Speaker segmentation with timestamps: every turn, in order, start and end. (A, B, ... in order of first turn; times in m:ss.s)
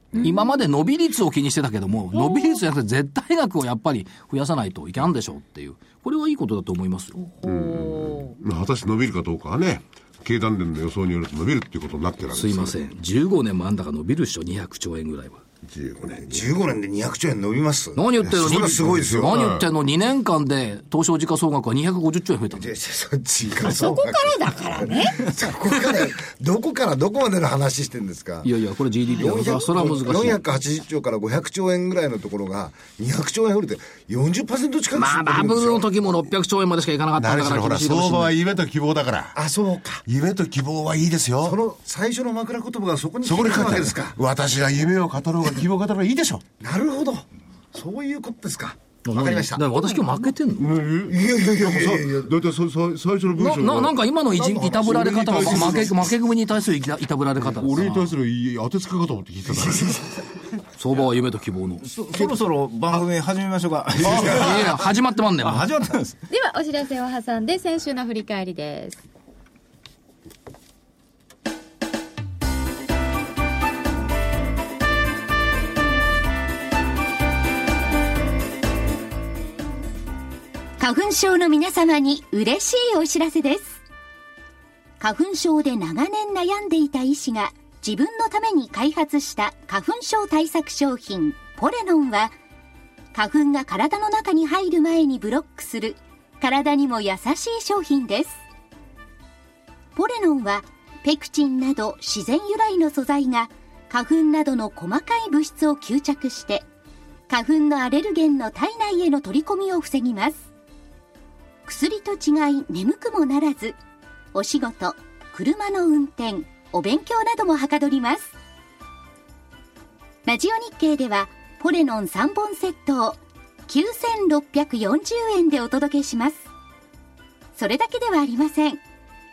0:00.2-0:00.6 A
0:00.2-0:07.2 B
0:02.1-0:02.6 A
0:07.2-0:08.4 A
0:07.4-0:12.8 C
0:12.3-0:15.4 B
0:15.7-0:16.4 C
0:16.3-0:19.3 D
0:18.0-0:22.7 B
0:18.2-0:19.7 C
0:22.5-0:28.5 D
0:23.6-0:25.3 A
0:28.4-0:30.4 B
0:29.1-0:35.9 D
0:35.0-0:38.3 B
0:37.2-0:39.4 C
0:39.4-0:40.0 D
0:40.0-0:41.6 C
0:41.4-0:44.2 D
0:43.2-0:46.4 C
0:46.6-0:49.7 D
0:49.1-0:50.7 B
0:50.6-0:54.0 C
0:51.1-0:52.3 D
0:53.4-0:58.2 B
0:54.4-0:55.9 D
0:54.8-0:56.0 C
0:57.4-1:00.0 C
1:00.8-1:01.8 B
1:01.8-1:04.8 E
1:04.1-1:05.7 B
1:04.1-1:04.4 C
1:05.4-1:06.2 E
1:06.3-1:09.0 A
1:20.8-1:23.8 F
1:25.0-1:32.4 F
1:33.1-1:38.4 F
1:40.0-1:46.7 F
1:47.3-1:50.4 F
1:51.7-1:53.8 F
1:54.3-1:58.3 F
2:00.2-2:06.4 F
2:07.6-2:08.8 F